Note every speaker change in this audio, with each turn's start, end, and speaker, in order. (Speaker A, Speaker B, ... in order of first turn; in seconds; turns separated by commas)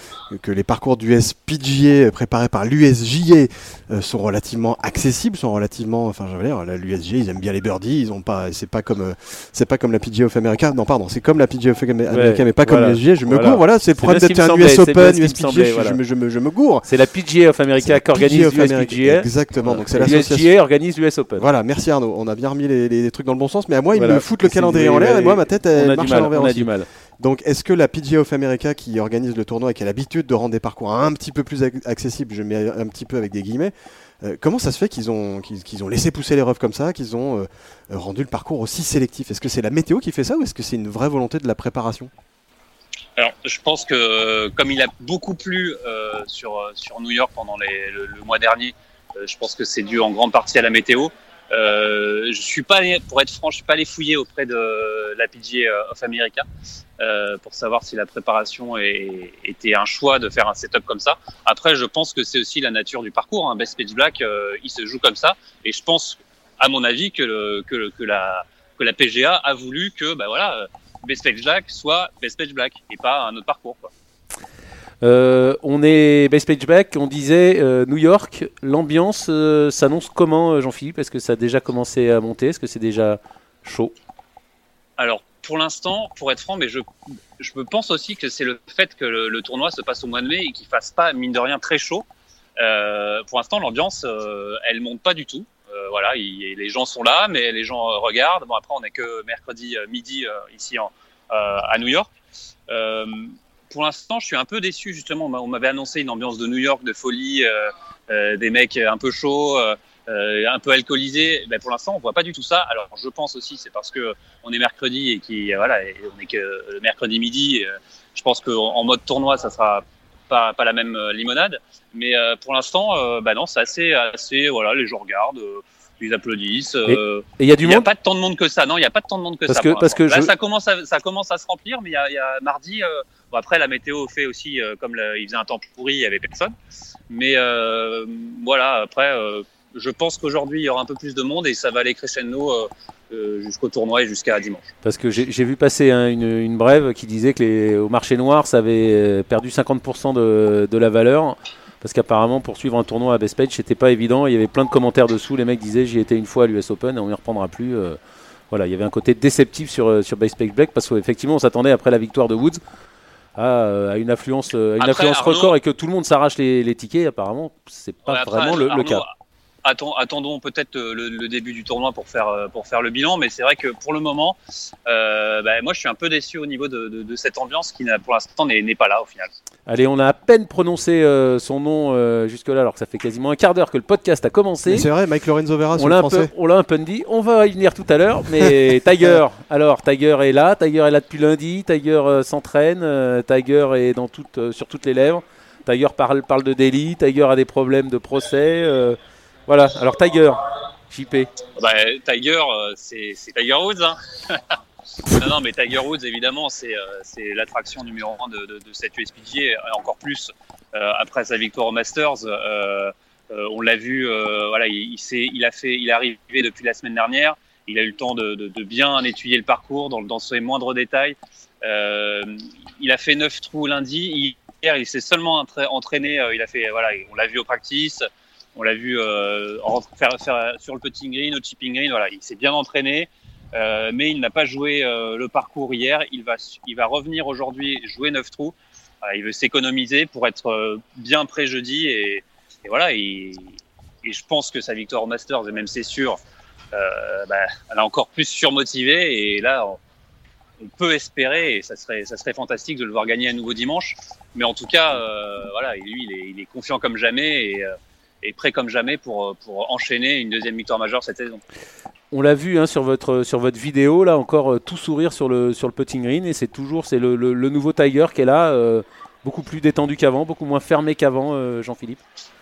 Speaker A: 0.3-16.9, Speaker B: 12.1-16.0, Speaker B: 16.8-21.4, Speaker A: 17.8-20.5, Speaker A: 21.4-42.1, Speaker B: 23.9-26.9, Speaker C: 43.2-56.4, Speaker C: 57.0-73.9, Speaker B: 75.0-83.9, Speaker C: 85.0-86.8, Speaker C: 87.4-92.0, Speaker C: 92.6-102.1, Speaker C: 102.7-136.5, Speaker B: 126.8-127.9, Speaker B: 129.5-130.3, Speaker C: 137.1-144.7, Speaker B: 144.8-158.0, Speaker B: 158.5-162.6, Speaker B: 163.3-169.0, Speaker C: 164.8-165.5, Speaker C: 168.1-169.1, Speaker C: 169.6-174.3, Speaker C: 174.9-179.3, Speaker B: 179.7-184.9, Speaker A: 184.7-186.3, Speaker B: 185.7-201.3, Speaker C: 201.6-204.4, Speaker C: 205.1-228.0, Speaker C: 228.6-246.2, Speaker C: 246.7-249.8, Speaker C: 250.6-261.4, Speaker B: 262.1-272.0